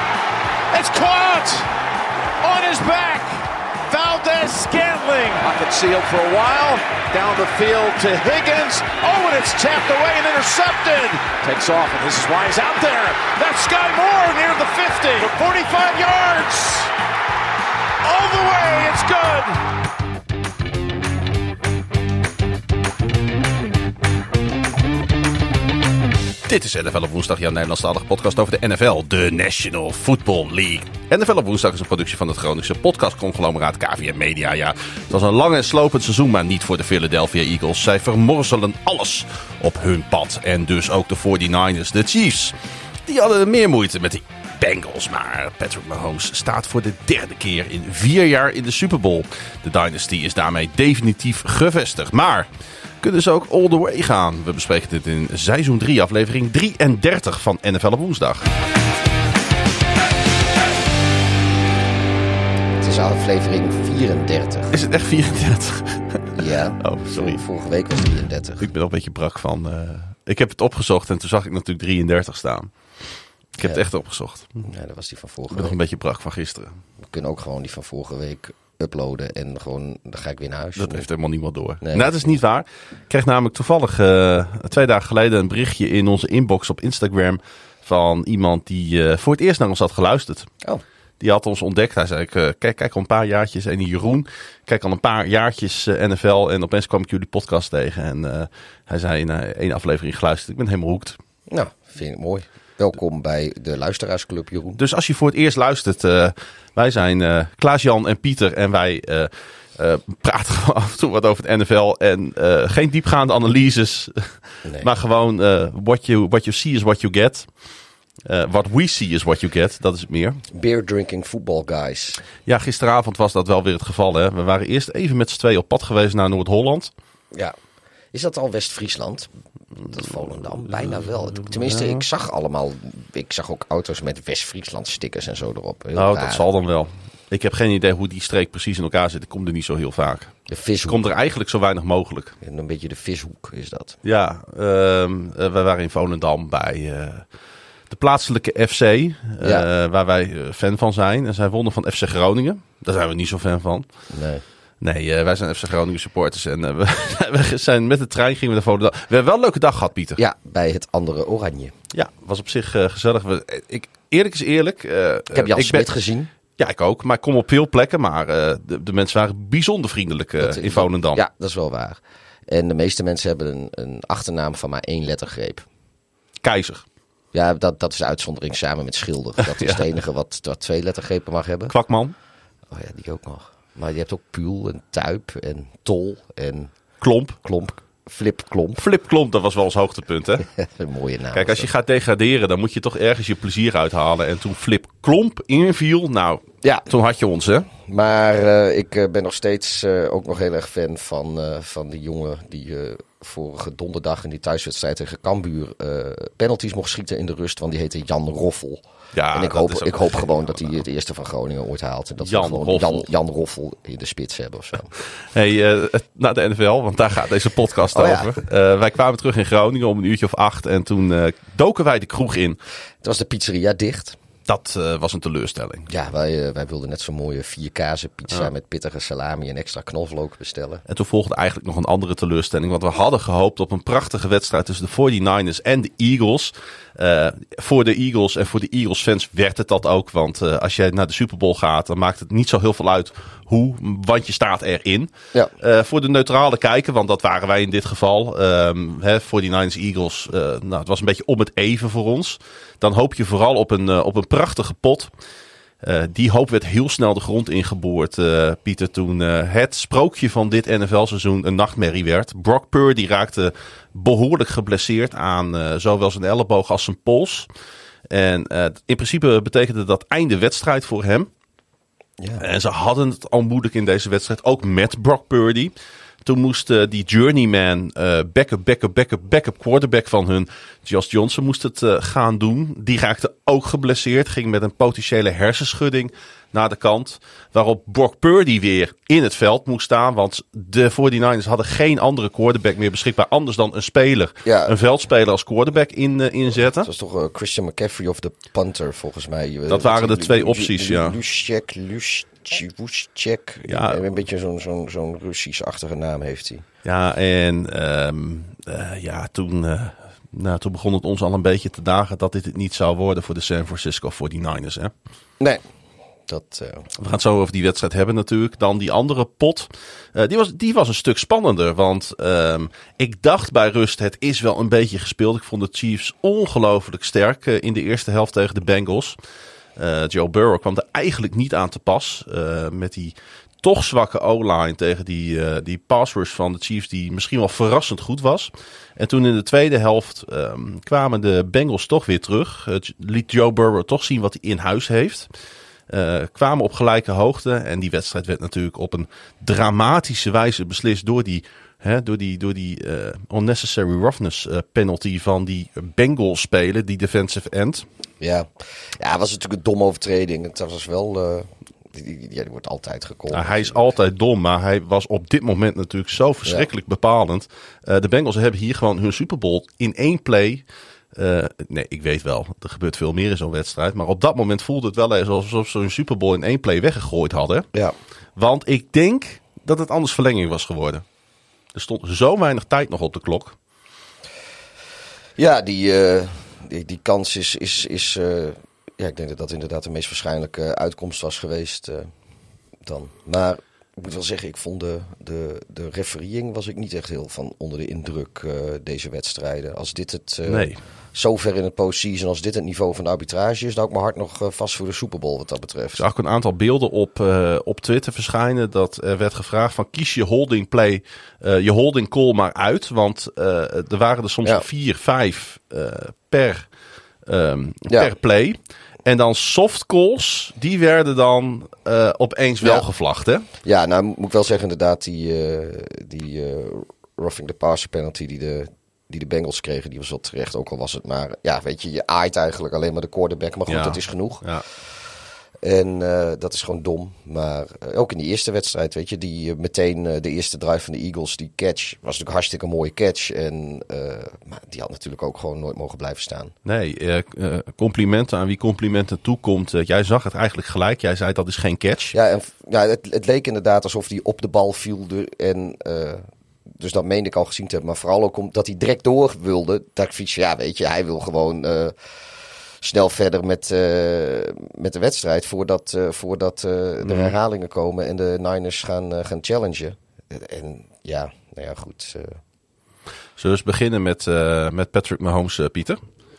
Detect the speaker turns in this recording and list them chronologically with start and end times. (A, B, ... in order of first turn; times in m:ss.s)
0:00.7-0:01.7 A
0:02.4-0:16.9 A
0:18.0-0:19.6 A
0:26.4-0:52.5 B
0:53.0-0:58.5 B
1:02.8-1:04.7 C
1:04.7-1:07.4 B
1:06.3-1:08.7 C
1:08.6-1:12.7 B
1:13.6-1:14.7 B
1:14.6-1:15.8 C
1:15.5-1:16.8 B
1:17.0-1:21.0 C
1:20.8-1:30.5 B
1:21.8-1:22.3 C
1:31.2-1:41.2 B
1:41.5-1:44.8 C
1:44.8-1:57.5 B
1:54.6-1:54.9 C
1:58.2-2:00.4 B
2:00.5-2:02.2 C
2:02.5-2:06.9 B
2:08.1-2:16.4 C
2:10.7-2:12.0 B
2:15.9-2:22.4 B
2:20.5-2:21.0 C
2:22.4-2:24.0 C
2:24.0-2:27.3 B
2:27.9-2:33.9 B
2:29.4-2:29.7 C
2:34.1-2:34.4 C
2:34.8-2:40.2 B
2:40.2-2:41.7 C
2:41.9-2:45.9 B
2:45.3-2:46.3 C
2:46.6-2:51.2 B
2:50.4-2:55.6 C
2:56.4-2:56.8 B
2:57.3-3:01.7 C
3:01.7-3:02.2 B
3:02.7-3:06.7 C
3:07.0-3:07.4 B
3:07.4-3:08.8 C
3:08.8-3:10.5 B
3:10.5-3:11.7 C
3:11.3-3:17.7 B
3:17.8-3:28.8 C
3:29.1-3:30.8 B
3:29.3-3:34.9 C
3:32.2-3:33.1 B
3:35.3-3:42.6 B
3:37.9-3:38.4 C
3:43.0-3:44.2 C
3:44.5-3:45.9 B
3:45.9-3:50.8 C
3:50.9-4:15.1 B
4:15.8-4:27.5 B
4:28.1-4:31.3 B
4:32.4-4:35.7 B
4:36.2-4:56.9 B
4:54.4-4:54.8 C
4:56.7-5:06.6 C
4:59.7-5:01.2 B
5:03.7-5:04.0 B
5:06.8-5:14.9 B
5:16.3-5:16.9 C
5:17.0-5:29.2 B
5:29.8-5:45.3 B
5:45.9-5:57.9 B
5:58.2-6:03.9 C
6:03.3-6:17.7 B
6:18.4-6:21.0 B
6:21.7-6:23.6 B
6:25.4-6:32.1 C
6:32.8-6:46.0 C
6:40.5-6:40.8 B
6:46.0-6:56.7 B
6:57.2-7:03.5 B
7:03.6-7:15.0 C
7:13.7-7:14.6 B
7:15.6-7:26.5 C
7:26.6-7:32.2 B
7:32.1-7:36.3 C
7:36.8-7:41.9 C
7:42.8-7:52.4 C
7:47.0-7:47.4 B
7:53.4-7:56.0 B